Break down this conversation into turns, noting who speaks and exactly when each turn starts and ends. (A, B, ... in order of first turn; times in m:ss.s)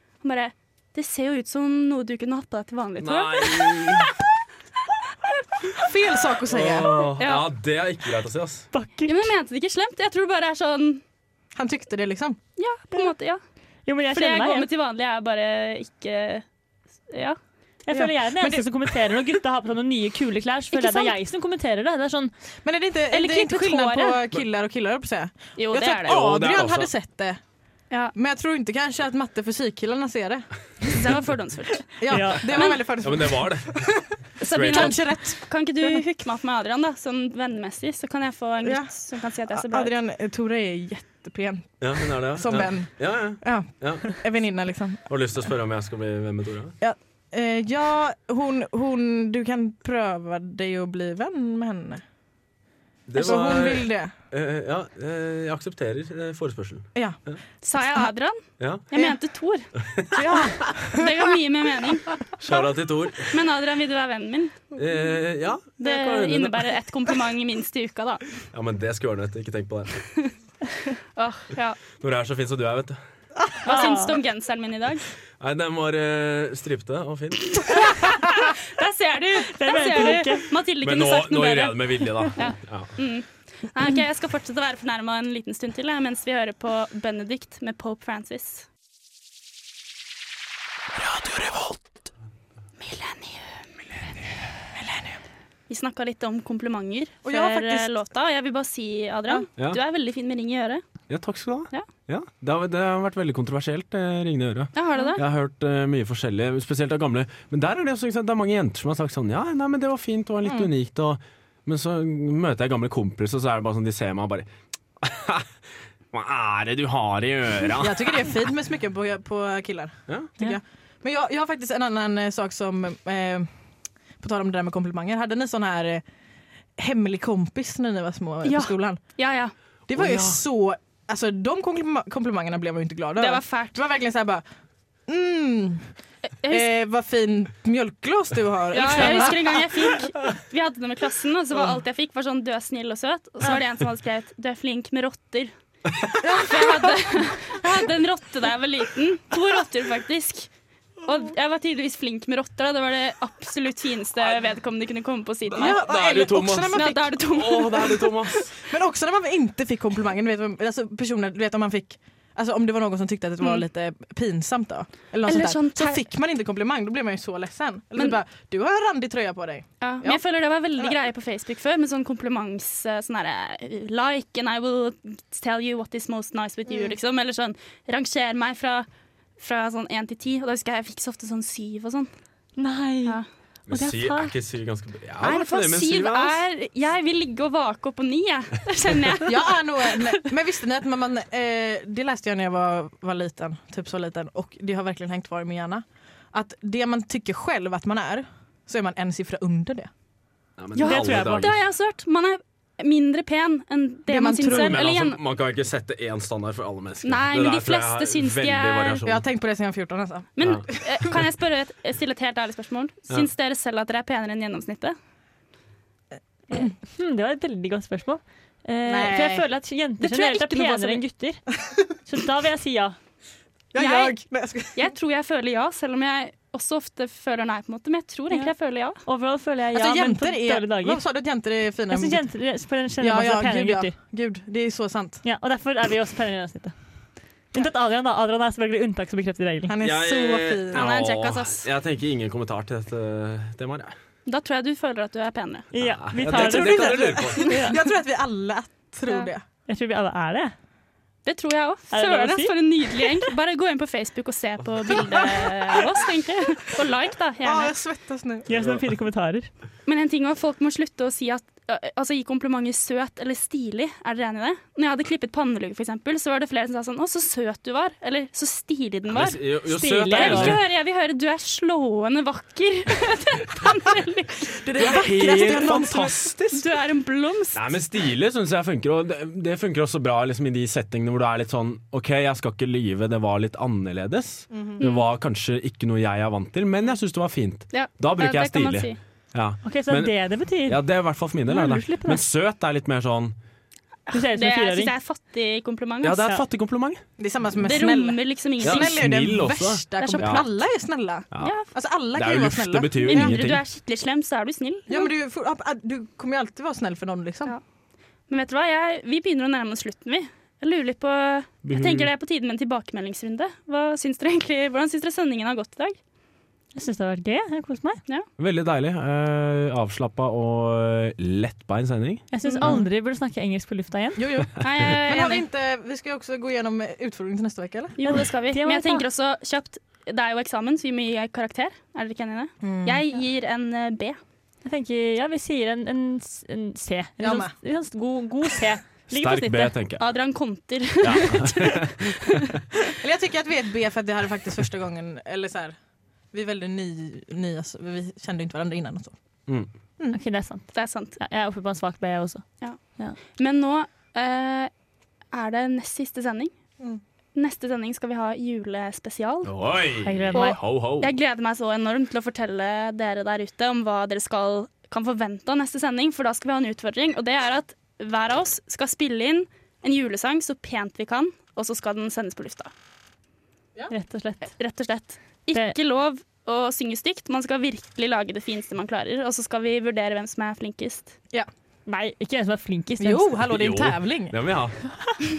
0:00.2-0:04.1 A
0:03.0-0:04.1 B
0:05.8-0:07.1 C
0:06.5-0:08.7 B
0:07.2-0:07.5 A
0:08.7-0:09.3 D
0:09.1-0:11.0 A
0:11.6-0:12.4 C
0:12.6-0:13.4 A
0:13.9-0:14.7 D
0:14.1-0:16.4 A
0:17.1-0:17.4 A
0:17.9-0:22.3 D
0:17.9-0:18.7 C
0:20.7-0:21.1 A
0:22.6-0:27.4 C
0:23.1-0:24.2 A
0:25.6-0:26.2 A
0:26.0-0:26.9 B
0:28.1-0:30.9 C
0:30.9-0:32.8 A
0:32.0-0:34.1 C
0:32.1-0:32.4 D
0:33.0-0:35.0 B
0:34.4-0:39.9 A
0:34.6-0:36.0 C
0:38.6-0:45.1 C
0:41.8-0:44.1 B
0:45.1-0:46.8 B
0:46.8-0:52.0 C
0:53.1-0:57.4 B
0:53.2-0:54.1 C
0:57.6-0:59.7 A
0:57.8-0:58.1 C
0:58.6-0:58.9 B
0:59.8-1:00.4 B
1:00.1-1:01.1 C
1:01.0-1:02.1 A
1:02.4-1:03.4 B
1:03.3-1:04.6 A
1:04.8-1:06.8 B
1:05.8-1:08.3 A
1:08.5-1:10.0 B
1:11.2-1:11.8 A
1:12.0-1:13.0 B
1:13.6-1:15.1 A
1:13.7-1:14.2 D
1:15.4-1:17.9 B
1:17.6-1:28.7 A
1:19.5-1:20.5 D
1:20.8-1:22.9 B
1:31.2-1:31.8 B
1:32.8-1:33.6 A
1:34.8-1:35.2 C
1:35.7-1:40.8 A
1:37.2-1:38.0 C
1:41.1-1:54.5 B
1:44.8-1:45.2 A
1:55.0-1:55.5 B
1:56.1-1:58.4 B
1:57.8-2:03.5 C
2:04.2-2:06.0 C
2:06.8-2:09.0 C
2:08.4-2:09.5 A
2:09.9-2:14.4 C
2:09.9-2:10.4 B
2:13.2-2:13.8 A
2:15.1-2:15.9 C
2:16.4-2:16.7 A
2:16.5-2:20.0 C
2:18.7-2:25.5 A
2:21.5-2:21.8 C
2:26.2-2:27.2 C
2:26.4-2:30.5 A
2:31.0-2:35.8 A
2:35.5-2:38.5 B
2:35.6-2:37.8 C
2:36.7-2:38.3 A
2:38.6-2:50.2 C
2:45.2-2:46.0 A
2:49.8-2:58.9 A
2:56.7-2:56.9 C
2:59.4-3:02.1 A
3:02.6-3:03.2 D
3:03.7-3:06.4 B
3:03.7-3:04.4 D
3:05.2-3:09.6 A
3:09.2-3:19.9 C
3:20.6-3:21.6 B
3:20.8-3:25.2 A
3:20.8-3:21.5 D
3:24.1-3:24.8 C
3:24.5-3:29.2 B
3:27.0-3:29.0 A
3:29.0-3:31.2 C
3:30.4-3:35.0 A
3:36.5-3:41.4 D
3:38.9-3:39.5 C
3:40.0-3:41.0 C
3:42.1-3:43.0 D
3:43.7-3:44.9 C
3:43.8-3:49.0 A
3:48.3-3:51.0 D
3:49.7-3:52.4 C
3:51.9-3:54.0 D
3:53.0-3:55.2 C
3:55.2-3:56.8 D
3:57.5-3:59.7 D
3:59.7-4:00.8 C
3:59.8-4:04.0 B
4:00.7-4:01.7 A
4:04.3-4:05.7 A
4:05.7-4:07.8 D
4:05.8-4:07.6 B
4:06.3-4:09.4 C
4:09.1-4:09.3 A
4:09.7-4:10.5 D
4:11.3-4:17.8 A
4:11.9-4:12.6 D
4:17.4-4:18.5 C
4:18.5-4:19.5 D
4:18.5-4:18.8 B
4:19.9-4:29.4 A
4:29.1-4:30.6 B
4:29.7-4:30.6 D
4:30.1-4:35.0 A
4:34.6-4:36.3 C
4:34.8-4:36.6 B
4:36.5-4:37.6 A
4:37.5-4:53.4 B
4:44.5-4:44.8 C
4:44.8-4:45.0 A
4:47.7-4:49.0 A
4:49.6-4:50.8 D
4:51.5-4:52.2 D
4:54.1-4:56.3 A
4:54.1-4:54.9 D
4:56.0-4:57.0 B
4:57.2-5:03.4 C
4:57.6-4:59.0 A
4:58.6-5:00.5 B
5:00.0-5:00.5 A
5:01.3-5:01.6 B
5:01.4-5:01.7 A
5:02.1-5:03.6 B
5:03.0-5:05.1 A
5:04.9-5:07.6 C
5:08.3-5:16.0 A
5:11.6-5:12.1 B
5:16.8-5:18.0 D
5:18.4-5:22.2 B
5:22.3-5:24.3 D
5:24.2-5:28.0 C
5:24.6-5:25.4 A
5:28.0-5:34.2 A
5:28.0-5:29.0 D
5:32.6-5:33.0 C
5:34.6-5:39.7 D
5:37.2-5:37.5 C
5:39.1-5:40.0 B
5:40.0-5:42.5 A
5:41.0-5:42.6 B
5:43.0-5:45.8 C
5:46.3-5:49.1 C
5:50.1-5:52.4 D
5:50.7-5:51.2 A
5:53.3-5:54.7 A
5:55.3-5:56.5 A
5:57.4-5:59.5 A
5:59.4-6:01.1 B
6:00.0-6:00.6 D
6:00.3-6:12.7 A
6:13.9-6:14.5 D
6:14.5-6:21.2 A
6:21.9-6:23.4 D
6:23.0-6:24.4 C
6:23.5-6:24.8 B